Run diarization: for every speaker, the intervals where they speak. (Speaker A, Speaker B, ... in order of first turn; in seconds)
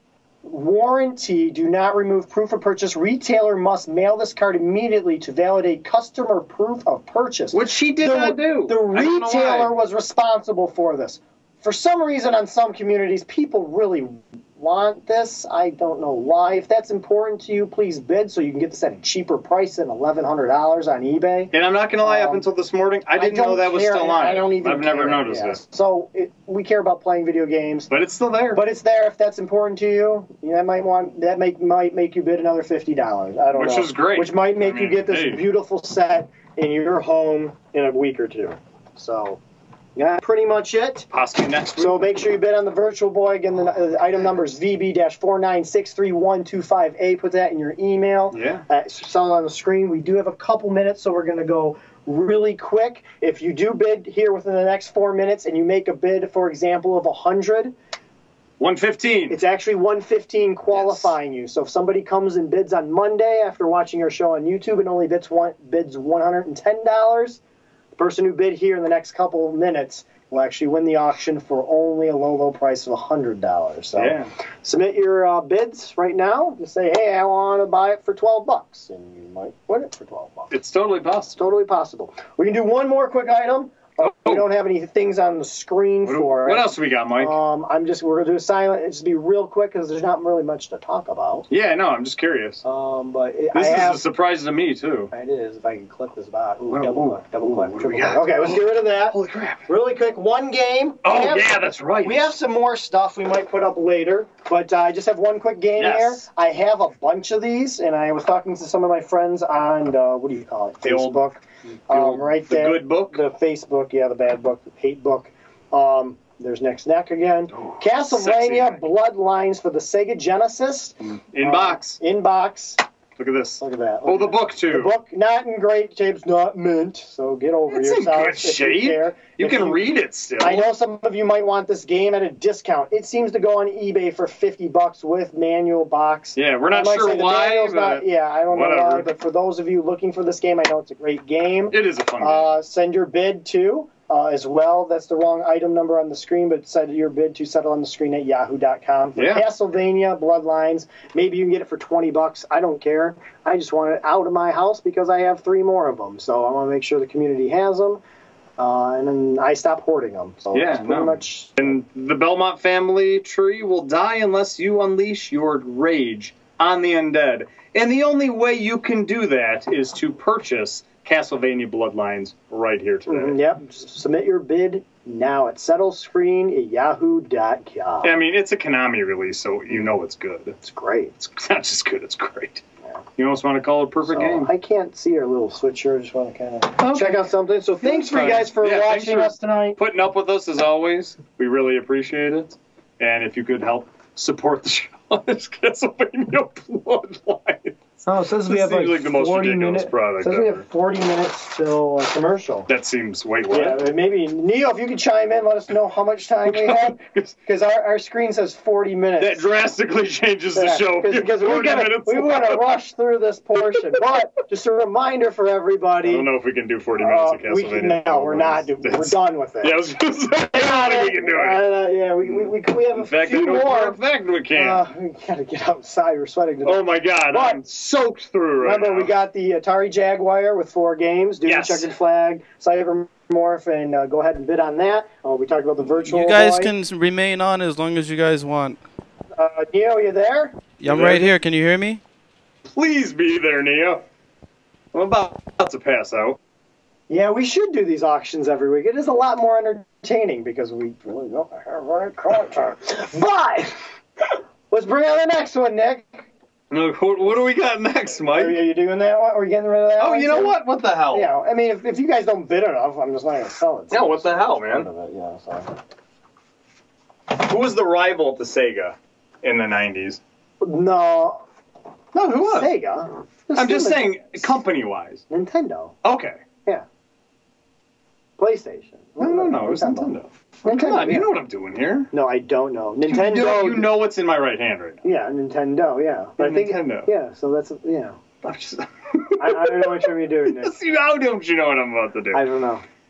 Speaker A: 0.4-22.4, 23.1-27.9, 28.5-39.4, 40.0-41.1, 41.8-57.7, 59.3-67.4, 68.0-80.5, 81.3-91.5, 92.6-94.0, 95.1-122.8, 123.6-158.0, 158.6-161.7, 173.1-178.2, 180.6-181.1, 184.1-189.8, 198.0-202.7, 203.5-209.5, 210.5-216.3, 217.0-219.8, 220.5-224.0, 224.5-227.6, 228.6-236.7, 239.3-240.6, 247.1-253.8, 254.7-256.3, 258.3-265.7, 270.6-271.4, 272.4-274.6, 275.3-276.0, 278.4-281.3, 282.1-284.0, 285.0-288.2, 289.4-290.8, 292.3-292.8
Speaker B: 7.5-9.7, 21.5-25.6, 27.9-28.6, 33.5-35.5, 41.1-42.1, 48.3-48.6, 58.6-59.4, 60.7-61.1, 74.0-74.3, 80.5-81.4, 84.0-84.5, 86.0-87.4, 91.5-92.6, 93.5-95.1, 96.7-99.7, 101.0-102.3, 105.8-106.2, 110.8-111.2, 111.9-113.2, 117.6-118.8, 121.0-122.0, 123.2-125.0, 127.7-130.7, 136.3-139.1, 141.7-142.6, 149.2-149.5, 160.5-173.4, 178.0-180.6, 181.2-182.6, 183.2-184.5, 186.8-197.8, 198.4-200.6, 202.7-203.8, 206.4-207.3, 209.2-212.8, 216.0-221.6, 222.2-224.8, 226.6-229.1, 231.4-231.9, 240.8-241.3, 242.7-244.0, 244.9-246.4, 256.7-258.6, 260.0-261.3, 263.9-264.9, 267.3-270.2, 272.1-272.7, 273.5-275.2, 276.0-276.4, 279.2-282.1, 283.0-285.0, 286.4-287.1, 288.4-292.5
Speaker C: 236.1-238.8, 240.8-242.0